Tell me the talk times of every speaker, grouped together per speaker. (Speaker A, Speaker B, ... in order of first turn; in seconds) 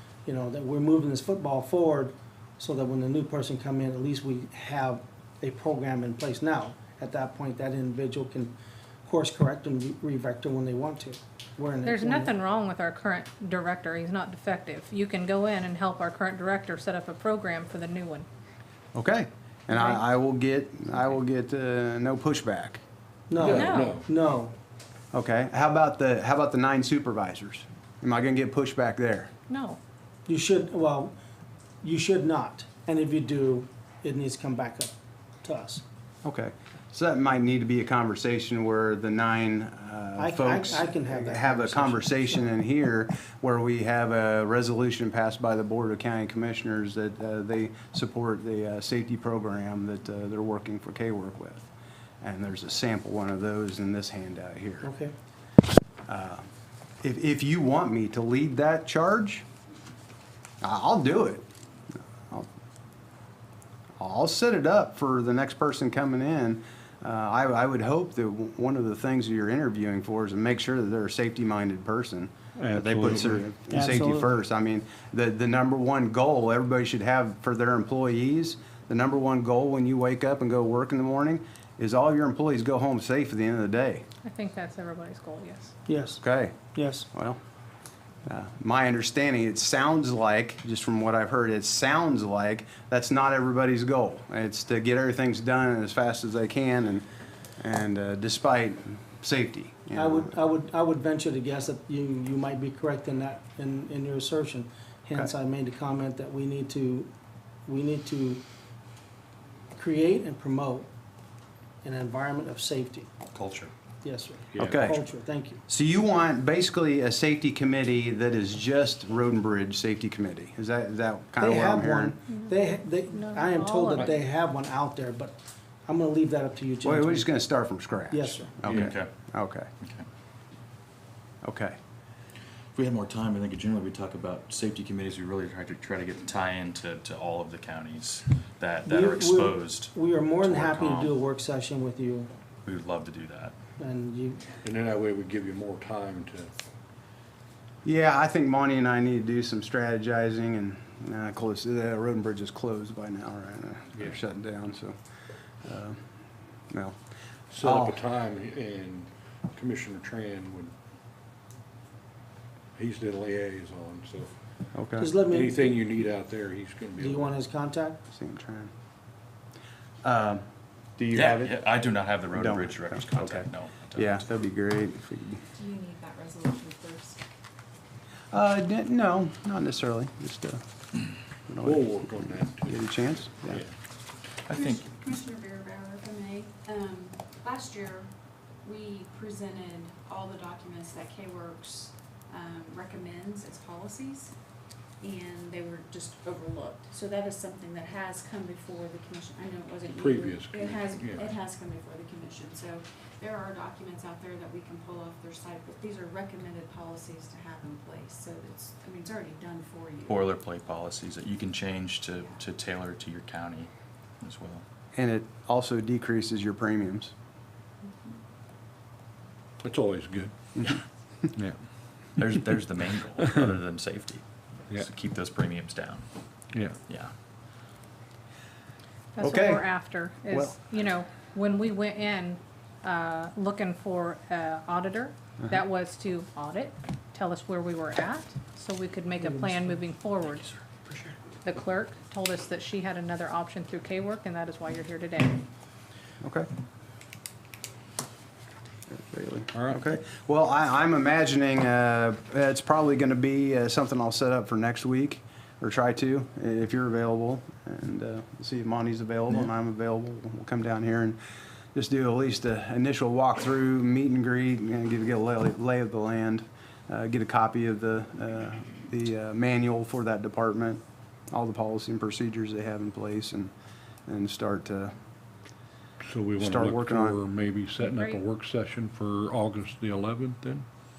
Speaker A: 0.2-8.5, 9.0-12.3, 23.3-24.5, 30.3-31.1, 31.8-35.8, 40.2-42.5, 54.8-55.1, 73.7-74.3, 85.9-86.2, 86.7-87.1, 99.9-107.1, 107.7-108.4, 109.8-110.9, 111.8-113.1, 114.0-115.6, 121.4-127.3, 128.1-128.5, 138.9-142.3, 143.8-144.4, 165.0-165.8, 167.0-168.0, 239.2-239.8
Speaker B: 11.8-18.3, 19.7-20.0, 23.5-24.0, 29.5-29.8, 84.2-85.7, 122.3-124.2, 229.1-240.5, 241.4-245.4, 277.8-278.2
Speaker C: 18.9-22.8, 25.1-29.3, 36.2-51.6, 52.2-54.9, 56.1-56.5, 57.0-59.4, 60.6-62.5, 64.0-84.0, 86.2-86.6, 87.1-87.4, 88.2-97.0, 97.6-100.3, 114.6-115.0, 115.7-122.2, 126.8-129.7, 131.4-131.8, 147.8-154.9, 155.6-156.0, 156.7-156.9, 157.6-158.0, 164.7-165.1, 168.1-168.7, 170.0-170.4, 171.0-171.6, 172.3-175.4, 178.3-180.6, 181.5-183.6, 214.9-217.1, 220.5-220.8, 229.2-229.7, 230.3-230.6, 246.2-246.5, 248.9-261.2, 261.7-273.5, 274.1-274.9, 276.4-277.2
Speaker D: 23.4-24.1, 72.6-73.5, 114.5-114.9, 144.6-146.5, 157.5-160.7, 162.8-164.3, 165.2-167.4, 181.6-182.9, 183.4-183.7, 199.9-201.3, 219.6-220.3, 223.2-223.5, 226.5-226.8, 249.5-249.8, 276.0-280.6
Speaker E: 113.3-113.7, 128.6-129.1, 129.8-130.1, 132.7-141.1, 142.6-143.5, 171.1-174.2, 184.5-184.8, 210.1-213.7, 214.2-214.6, 222.2-226.1, 226.8-227.1
Speaker F: 175.6-177.2, 184.5-188.1, 188.6-194.3, 195.0-210.3, 212.1-212.4, 217.8-218.1